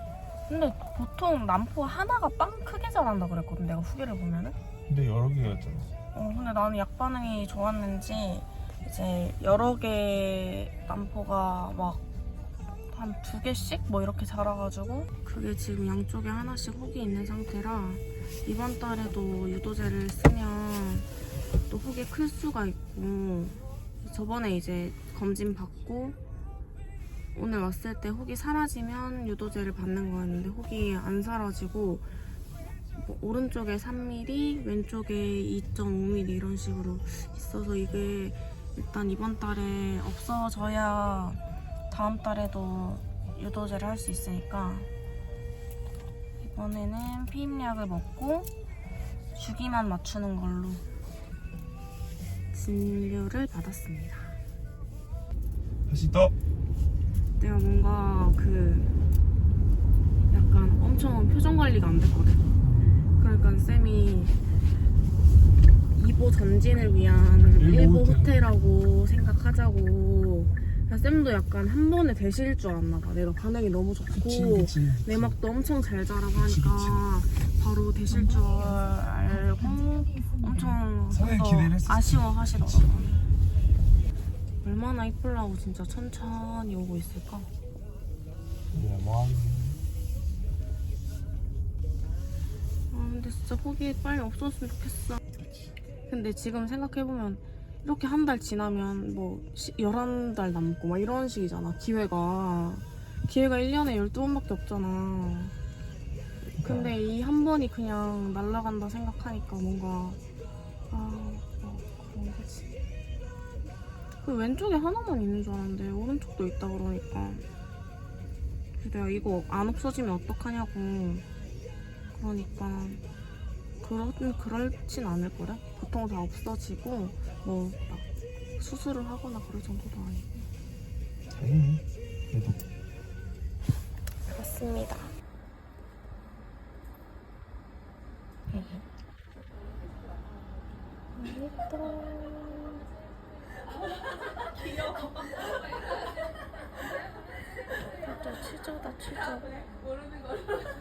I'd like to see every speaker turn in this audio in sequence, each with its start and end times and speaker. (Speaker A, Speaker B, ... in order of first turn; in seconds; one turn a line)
Speaker A: 0.5-4.6
Speaker B: 4.9-5.9
Speaker A: 6.1-12.0
Speaker A: 12.9-21.1
Speaker A: 21.7-26.2
Speaker A: 27.3-32.1
Speaker A: 33.0-44.9
Speaker A: 46.4-48.5
Speaker A: 49.3-50.8
Speaker A: 52.5-54.4
Speaker B: 55.9-56.3
Speaker A: 57.4-58.9
Speaker A: 60.3-62.4
Speaker A: 63.2-64.3
Speaker A: 65.9-83.2
Speaker A: 84.6-87.5
Speaker B: 88.7-89.8
Speaker A: 92.9-95.2
Speaker A: 96.1-105.5
Speaker A: 106.6-110.2
Speaker B: 106.6-106.9
Speaker A: 110.9-112.7
Speaker A: 114.2-117.4
Speaker A: 118.8-121.2
Speaker A: 122.1-123.0
Speaker A: 123.8-128.1
Speaker A: 128.6-130.4
Speaker B: 131.3-132.6
Speaker A: 134.3-135.1
Speaker A: 138.5-138.8
Speaker A: 141.1-142.8
Speaker A: 148.0-149.6